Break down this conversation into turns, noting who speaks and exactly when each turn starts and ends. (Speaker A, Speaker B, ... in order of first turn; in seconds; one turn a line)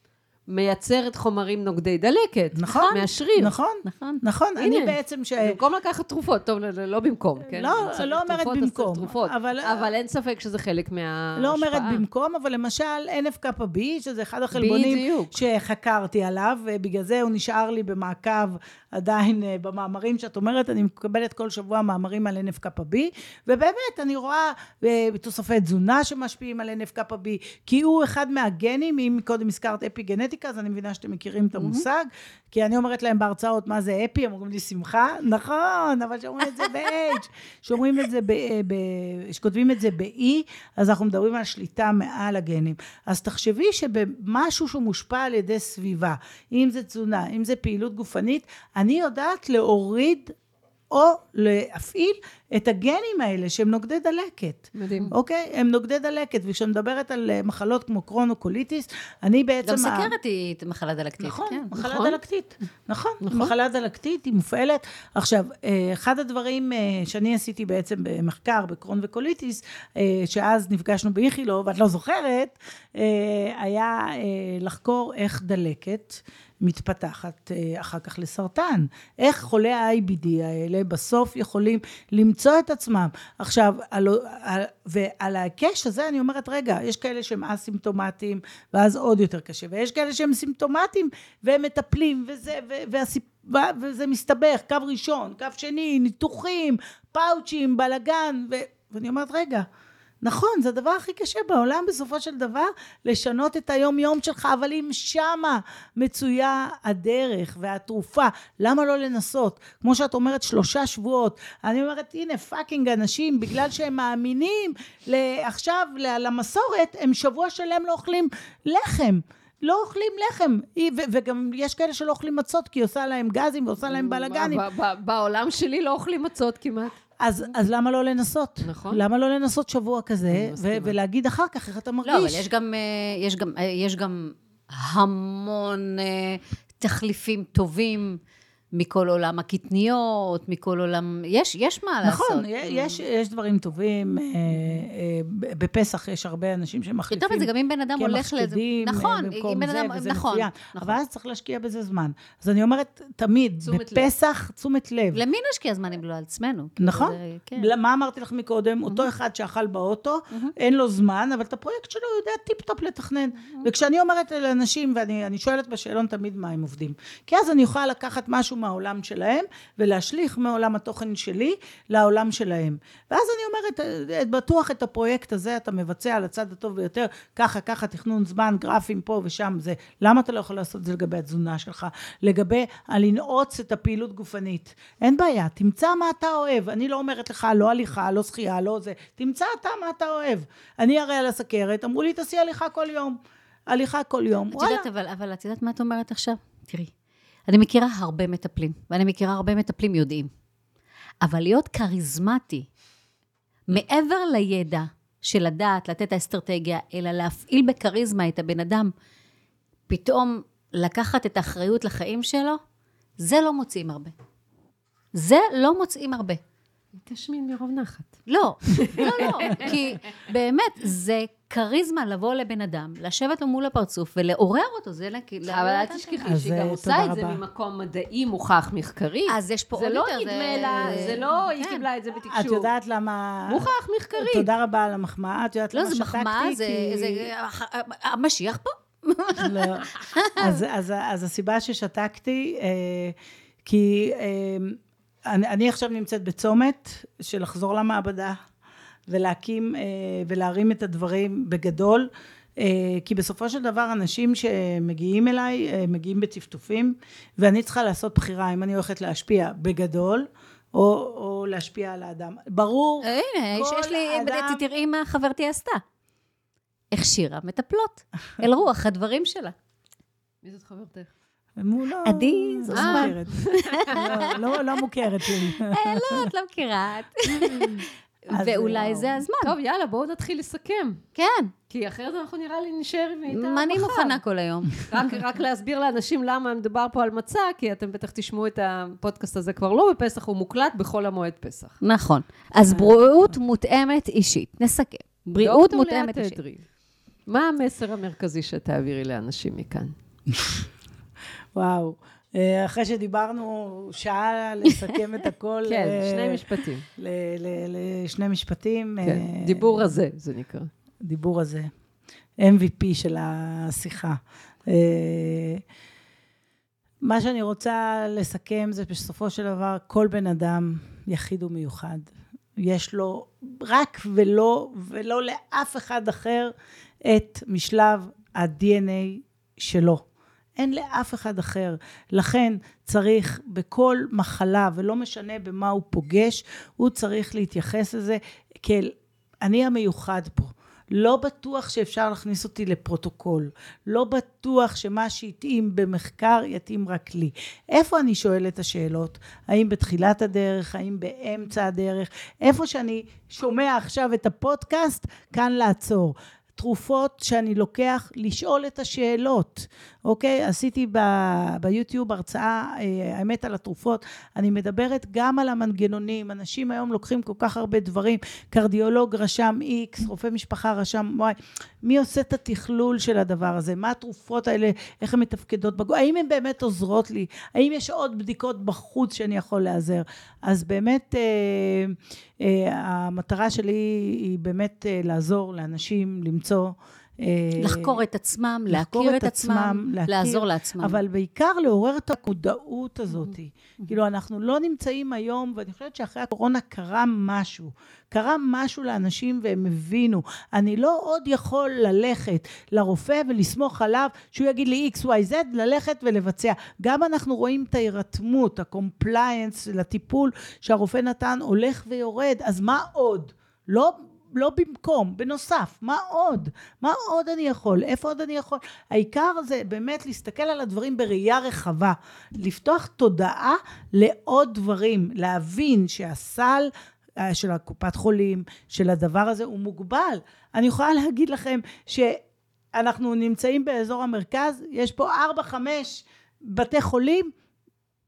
Speaker A: 0.5-3.5
Speaker B: 2.5-5.6
Speaker C: 2.7-3.0
Speaker C: 3.8-4.2
Speaker A: 4.6-12.0
Speaker B: 7.4-9.9
Speaker B: 11.3-50.3
Speaker A: 14.5-15.4
Speaker C: 31.6-31.8
Speaker B: 50.9-60.1
Speaker A: 54.8-55.1
Speaker C: 59.6-61.7
Speaker B: 61.2-99.7
Speaker A: 61.8-62.2
Speaker A: 63.2-63.5
Speaker B: 100.2-124.6
Speaker A: 123.8-126.9
Speaker B: 127.2-132.5
Speaker A: 128.6-129.0
Speaker A: 130.3-130.9
Speaker C: 132.0-138.2
Speaker C: 138.7-143.0
Speaker B: 142.0-155.2
Speaker C: 144.5-144.8
Speaker C: 147.1-151.0
Speaker A: 153.7-154.1
Speaker C: 155.1-157.7
Speaker B: 156.8-193.2
Speaker B: 193.7-194.8
Speaker C: 194.5-196.9
Speaker C: 197.5-200.3
Speaker C: 201.2-202.7
Speaker C: 203.7-208.9
Speaker C: 209.9-212.6
Speaker C: 213.2-214.1
Speaker C: 215.1-216.4
Speaker A: 217.0-218.2
Speaker C: 218.3-226.3
Speaker A: 218.7-219.8
Speaker A: 225.5-232.7
Speaker B: 226.2-227.4
Speaker C: 229.3-231.8
Speaker B: 232.3-237.3
Speaker A: 233.5-234.5
Speaker C: 235.7-240.6
Speaker B: 239.3-248.4
Speaker B: 249.1-264.6
Speaker C: 263.0-265.8
Speaker C: 266.9-269.5
Speaker A: 270.4-271.1
Speaker B: 271.6-276.3
Speaker C: 272.0-274.4
Speaker A: 272.7-274.4
Speaker C: 275.2-279.6
Speaker A: 277.4-277.9
Speaker B: 278.3-279.2
Speaker A: 279.4-281.0
Speaker C: 281.1-281.5
Speaker A: 281.7-284.2
Speaker C: 283.3-284.8
Speaker A: 284.8-291.8
Speaker C: 291.8-296.4
Speaker A: 295.4-296.6
Speaker A: 297.3-299.9
Speaker B: 301.5-309.9
Speaker A: 305.6-306.9
Speaker A: 309.0-310.7
Speaker B: 311.0-311.7
Speaker B: 312.4-315.6
Speaker B: 317.0-326.5
Speaker B: 327.0-330.0
Speaker B: 330.6-388.0
Speaker C: 387.6-391.0
Speaker B: 388.7-432.2
Speaker B: 432.7-437.3